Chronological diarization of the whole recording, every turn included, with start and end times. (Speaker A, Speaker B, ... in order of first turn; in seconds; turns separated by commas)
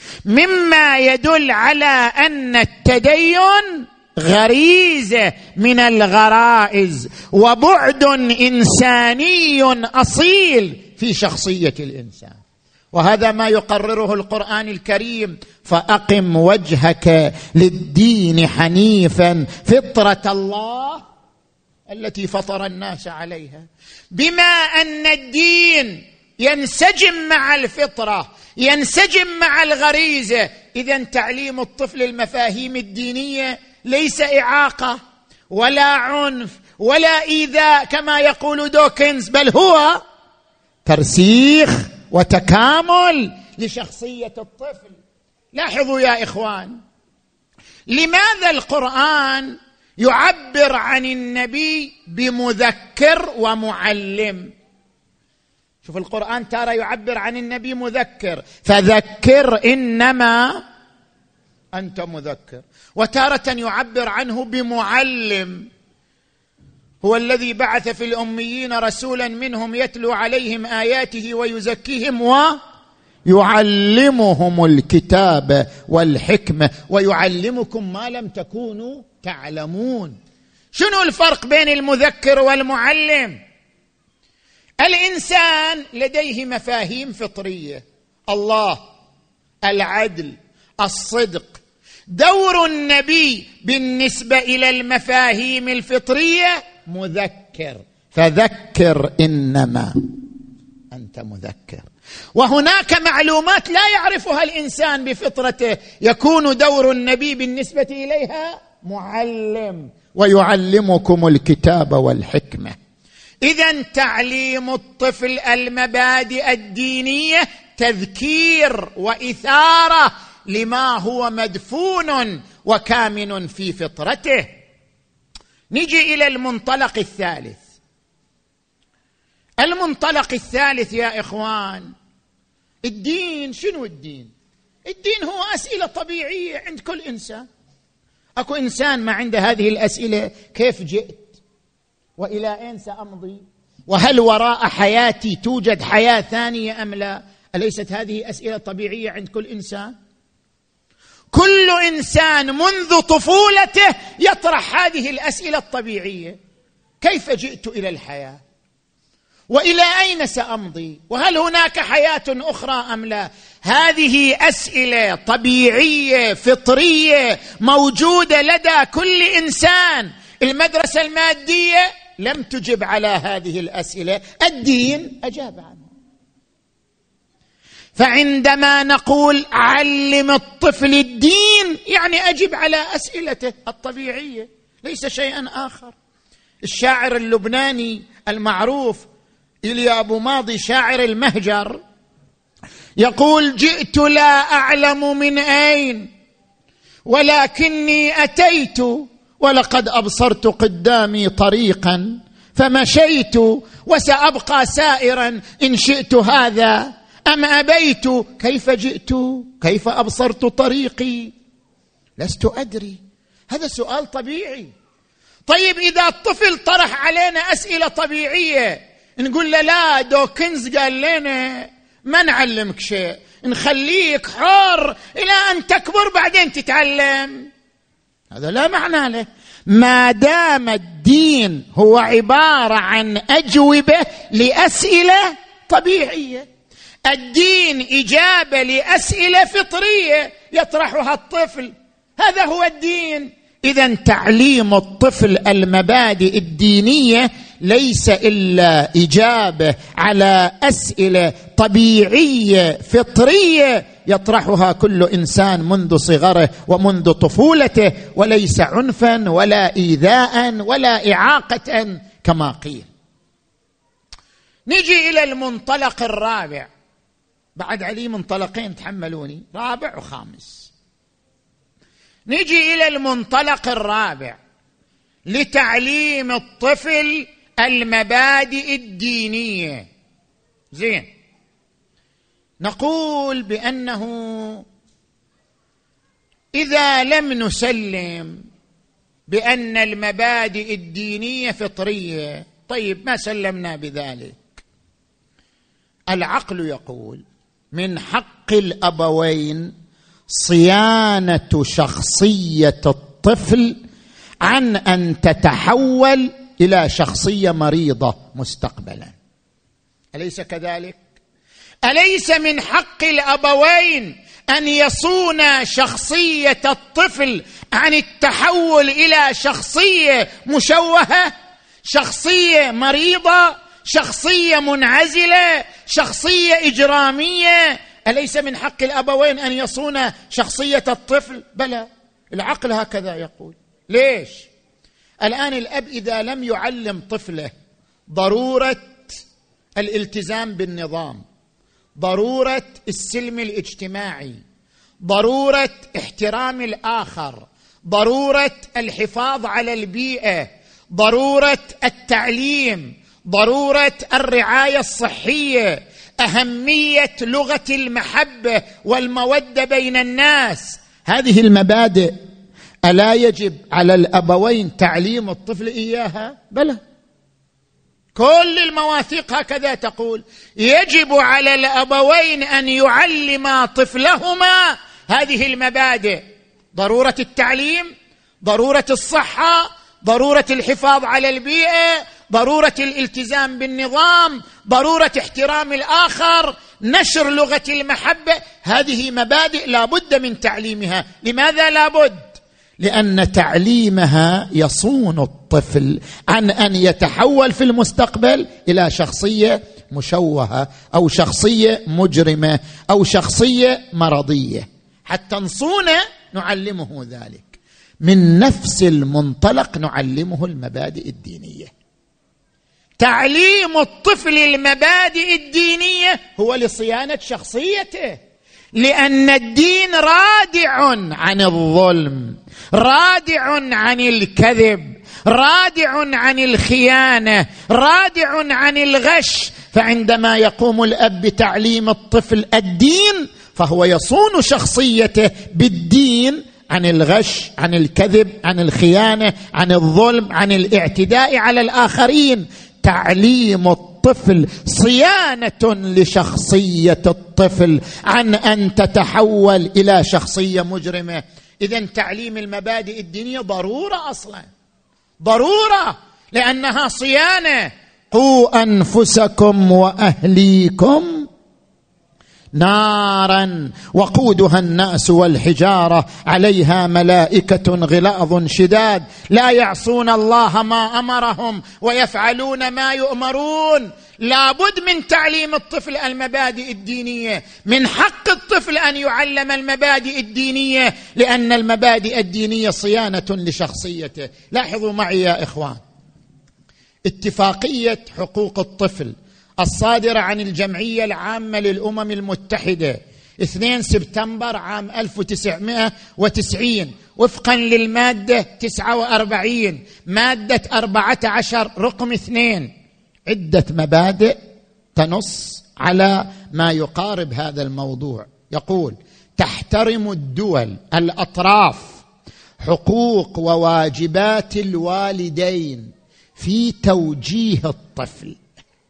Speaker A: 0.3-12.4, Speaker A: 12.9-21.0, Speaker A: 21.9-35.0, Speaker A: 35.5-40.0, Speaker A: 40.9-45.0, Speaker A: 45.5-46.8, Speaker A: 47.9-54.5, Speaker A: 55.8-60.6, Speaker A: 61.8-65.7, Speaker A: 67.0-72.6, Speaker A: 73.3-80.2, Speaker A: 80.7-83.4, Speaker A: 84.8-88.8, Speaker A: 89.7-99.9, Speaker A: 100.9-112.8, Speaker A: 113.4-124.5, Speaker A: 125.7-127.6, Speaker A: 129.6-131.9, Speaker A: 132.8-134.3, Speaker A: 134.9-137.4, Speaker A: 138.4-141.3, Speaker A: 142.2-149.9, Speaker A: 151.3-156.4, Speaker A: 157.0-158.4, Speaker A: 159.5-175.9, Speaker A: 178.0-185.9, Speaker A: 186.7-189.1, Speaker A: 189.7-191.8, Speaker A: 193.0-196.1, Speaker A: 197.1-211.3, Speaker A: 212.2-213.0, Speaker A: 213.5-214.7, Speaker A: 215.5-227.5, Speaker A: 228.3-236.5, Speaker A: 237.1-262.9, Speaker A: 264.7-266.7, Speaker A: 267.6-270.7, Speaker A: 272.3-274.4, Speaker A: 275.3-279.9, Speaker A: 280.7-281.1, Speaker A: 282.6-284.6, Speaker A: 286.6-288.4, Speaker A: 289.3-294.6, Speaker A: 296.1-297.2, Speaker A: 297.7-299.7, Speaker A: 300.3-303.8, Speaker A: 304.4-309.1, Speaker A: 310.1-311.0, Speaker A: 311.9-321.3, Speaker A: 321.8-334.5, Speaker A: 335.2-337.5, Speaker A: 338.1-339.2, Speaker A: 339.8-341.2, Speaker A: 342.0-344.4, Speaker A: 345.1-362.1, Speaker A: 362.9-366.8, Speaker A: 368.1-377.9, Speaker A: 378.4-411.7, Speaker A: 413.0-418.2, Speaker A: 418.8-454.5, Speaker A: 455.2-461.3, Speaker A: 462.6-485.8, Speaker A: 487.1-502.7, Speaker A: 503.3-504.4, Speaker A: 505.0-512.0, Speaker A: 512.6-518.4